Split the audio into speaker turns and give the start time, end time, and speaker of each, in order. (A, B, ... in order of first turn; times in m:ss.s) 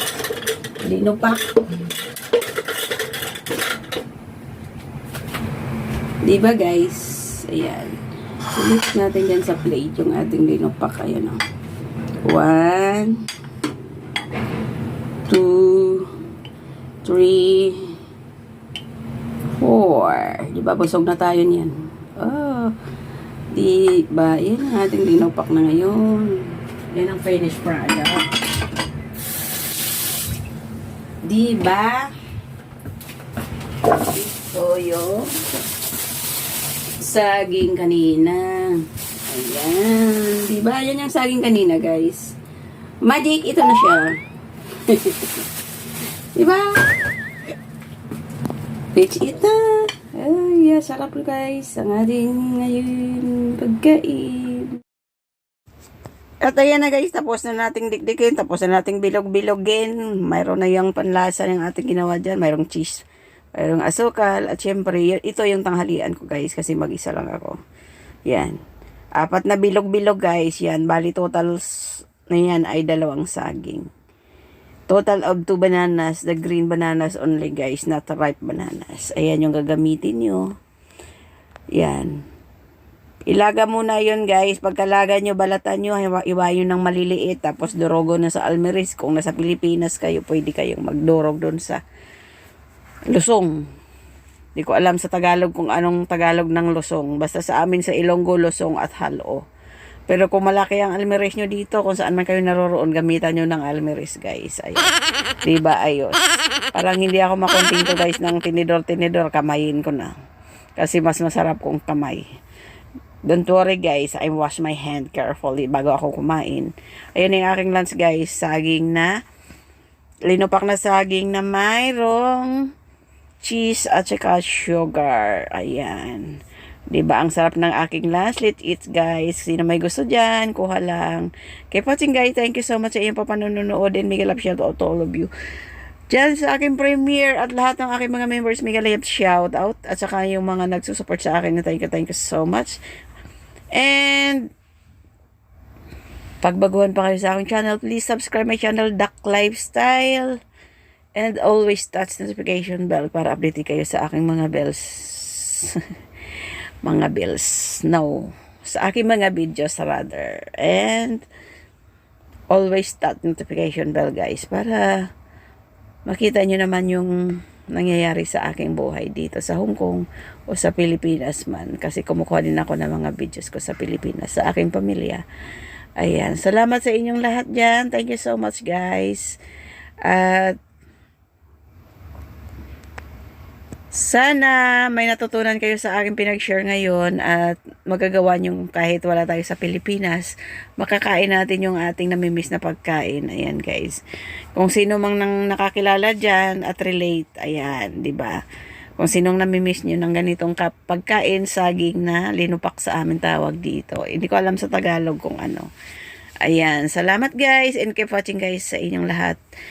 0:00.8-0:01.6 A
0:06.2-0:08.0 A
0:08.5-0:11.4 A
0:12.2-0:13.1 A
0:15.3-0:16.1 A
0:17.0-0:18.0 A
0:19.6-0:22.7 A
0:23.5-0:28.3 A
0:31.2-0:32.1 A
0:33.9-0:35.3 A
0:37.0-0:42.3 A
0:43.0-0:44.1 A
0:44.8-0:45.4 A
0:46.3-0:47.0 A
0:48.9-0:54.8 A
0:56.4-1:03.0 A
1:03.6-1:07.6 A
1:08.3-1:08.6 A
1:09.2-1:13.9 A
1:14.9-1:20.5 A
1:21.7-1:22.2 A
1:23.3-1:31.8 A
1:33.1-1:33.6 A
1:34.6-1:39.4 A
1:40.1-1:44.9 A
1:45.4-1:46.2 A
1:46.7-1:50.1 A
1:50.8-1:52.2 A
1:53.3-1:59.1 A
2:00.3-2:02.5 A
2:03.4-2:06.4 A
2:06.9-2:15.3 A
2:16.1-2:22.8 A
2:23.7-2:24.5 A
2:26.4-2:30.4 A
2:31.1-2:35.8 A
2:36.8-2:41.2 A
2:42.5-2:45.1 A
2:46.0-2:47.1 A
2:47.7-2:55.2 A
2:56.0-2:59.4 A
3:00.0-3:00.6 A
3:03.9-3:14.0 A
3:14.5-3:18.4 A
3:19.0-3:25.7 A
3:26.4-3:29.4 A